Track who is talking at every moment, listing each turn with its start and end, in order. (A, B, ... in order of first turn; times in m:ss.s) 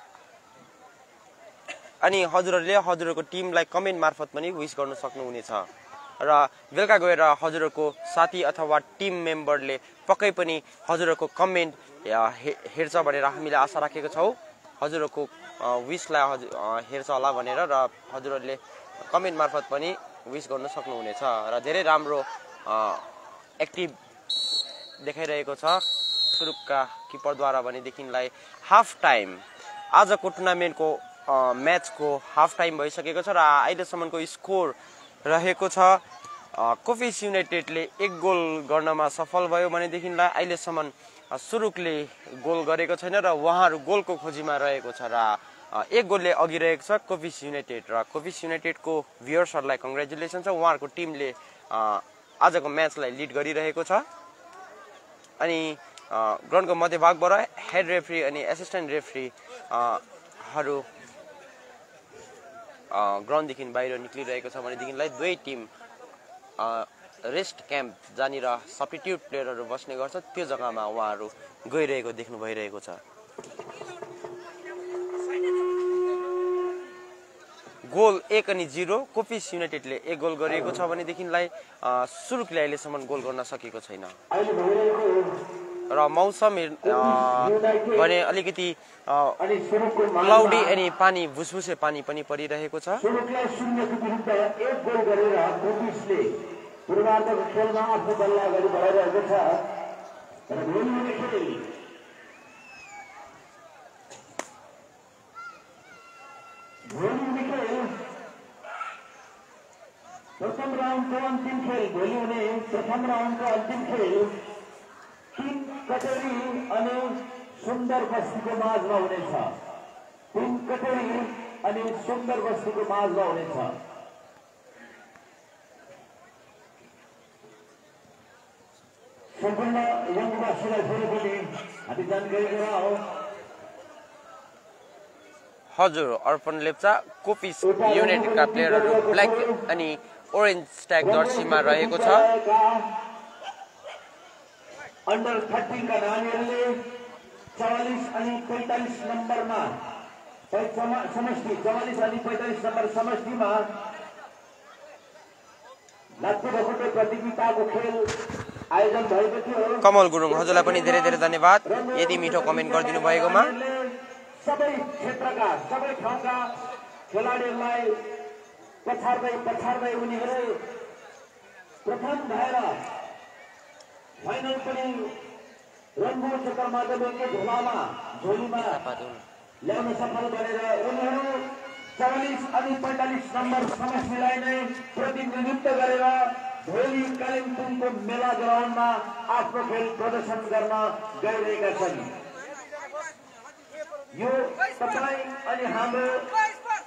0:02.0-0:24.0 A
0:25.0-0:54.1 A
0:55.4-1:00.9 A
1:02.9-1:05.7 A
1:06.6-1:13.0 A
1:17.8-1:24.2 A
1:24.3-1:25.4 B
1:25.9-1:29.4 A
1:26.8-1:28.1 B
1:29.4-1:30.8 B
1:30.2-1:33.0 A
1:33.0-1:39.7 B
1:40.5-1:41.7 B
1:46.9-1:48.0 B
1:50.4-1:54.4 B
1:55.4-1:59.6 B
2:00.3-2:03.8 B
2:09.4-2:13.0 B
2:15.7-2:22.3 A
2:17.6-2:19.6 B
2:21.0-2:22.9 B
2:25.1-2:26.8 B
2:27.5-2:29.8 B
2:30.5-2:33.7 B
2:36.2-2:38.1 B
2:38.7-2:46.5 B
2:39.8-2:43.5 A
2:47.1-2:48.1 B
2:48.8-2:50.6 B
2:51.8-2:52.9 B
2:54.2-2:55.2 B
2:56.0-2:58.8 B
2:58.6-2:59.3 A
2:59.6-3:12.1 B
3:14.1-3:16.3 B